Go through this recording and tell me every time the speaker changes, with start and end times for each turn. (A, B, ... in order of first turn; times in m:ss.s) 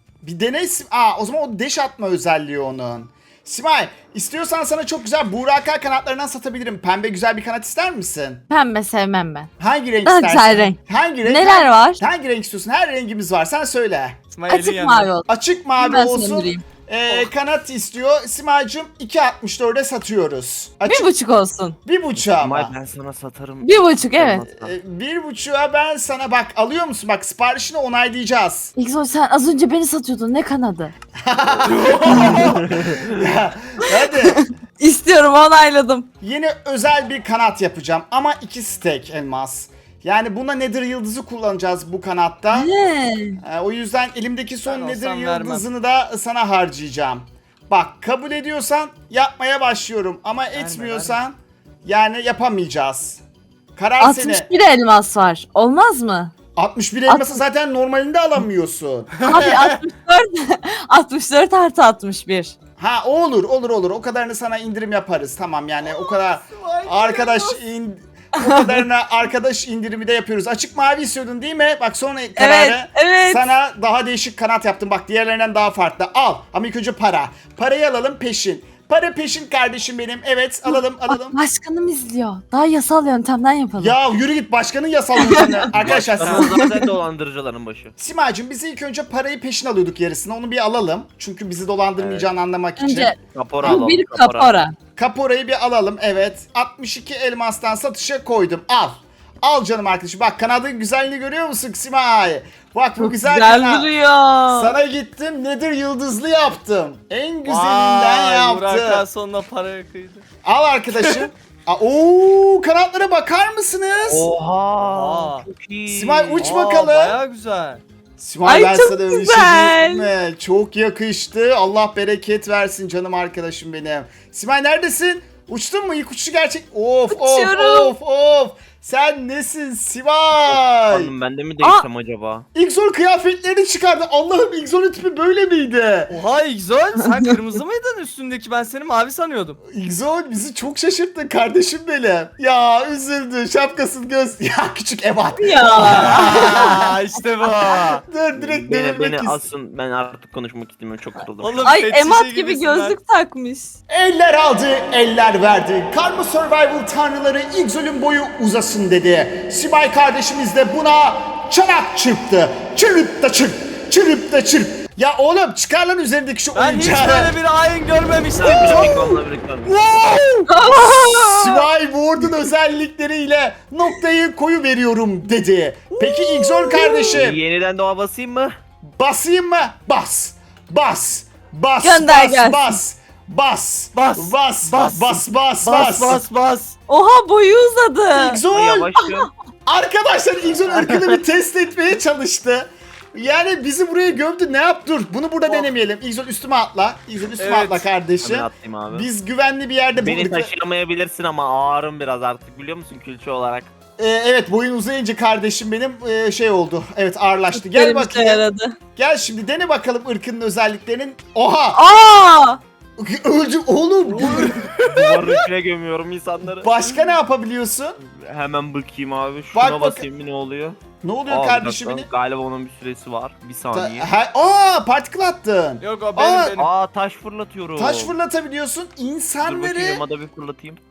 0:00.2-0:08.4 A
0:08.5-0:09.5 B
0:09.6-0:14.2 A
0:10.0-0:12.0 B
0:14.3-0:15.1 C
0:14.5-0:15.2 B
0:15.3-0:21.1 A
0:15.8-0:16.6 B
0:20.8-0:21.8 B
0:21.8-0:22.7 A
0:22.2-0:24.7 D
0:23.6-0:24.4 B
0:24.5-0:28.7 A
0:28.8-0:30.9 B
0:31.2-0:34.5 A
0:31.6-0:32.6 C
0:32.4-0:33.1 D
0:34.8-0:36.1 B
0:36.2-0:42.7 A
0:42.5-0:43.4 B
0:43.4-0:53.2 A
0:44.6-0:45.6 C
0:50.5-0:51.2 C
0:53.8-0:54.5 A
0:54.0-0:56.3 B
0:56.6-0:59.4 A
0:57.1-0:57.4 B
0:59.2-0:59.8 C
0:59.2-1:02.5 B
1:02.8-1:21.4 A
1:05.8-1:07.6 C
1:12.4-1:13.5 B
1:21.1-1:24.0 B
1:23.8-1:26.5 A
1:25.7-1:27.9 D
1:28.0-1:33.8 A
1:32.0-1:32.3 D
1:32.8-1:34.7 B
1:33.3-1:34.5 D
1:35.0-1:43.9 A
1:43.0-1:44.7 B
1:44.5-1:49.0 A
1:47.4-1:50.2 C
1:50.4-1:54.3 A
1:51.0-1:51.3 C
1:54.1-1:56.5 D
1:54.8-1:55.4 C
1:55.9-1:57.2 A
1:56.4-1:57.8 C
1:58.2-2:11.1 A
1:58.4-2:00.1 B
2:07.1-2:07.9 B
2:10.5-2:12.4 D
2:12.5-2:16.2 A
2:16.1-2:19.6 C
2:19.7-2:26.9 A
2:25.4-2:26.8 B
2:25.9-2:28.0 C
2:28.0-2:29.4 A
2:28.4-2:31.6 D
2:31.4-2:33.0 C
2:31.6-2:33.7 B
2:33.9-2:47.3 A
2:46.5-2:49.0 C
2:48.4-2:49.8 D
2:48.4-2:57.4 A
2:50.5-2:51.7 B
2:55.9-2:56.8 C
2:56.7-2:57.1 B
2:57.1-2:58.5 D
2:58.9-3:06.2 A
3:01.8-3:02.8 B
3:03.9-3:06.8 C
3:06.9-3:08.4 B
3:08.1-3:09.0 A
3:08.5-3:09.3 D
3:09.7-3:20.5 A
3:10.8-3:11.2 B
3:17.4-3:17.9 C
3:18.2-3:19.1 D
3:20.0-3:23.7 D
3:24.0-3:28.4 A
3:27.6-3:28.7 B
3:29.0-3:31.8 A
3:31.7-3:32.6 B
3:33.0-3:34.6 A
3:34.2-3:35.2 C
3:34.8-3:36.7 D
3:36.6-3:38.0 A
3:38.0-3:44.1 D
3:39.5-3:40.0 A
3:41.0-3:42.1 A
3:43.7-3:46.6 A
3:45.8-3:46.7 C
3:46.6-3:48.1 D
3:47.8-3:50.0 A
3:49.4-3:50.8 D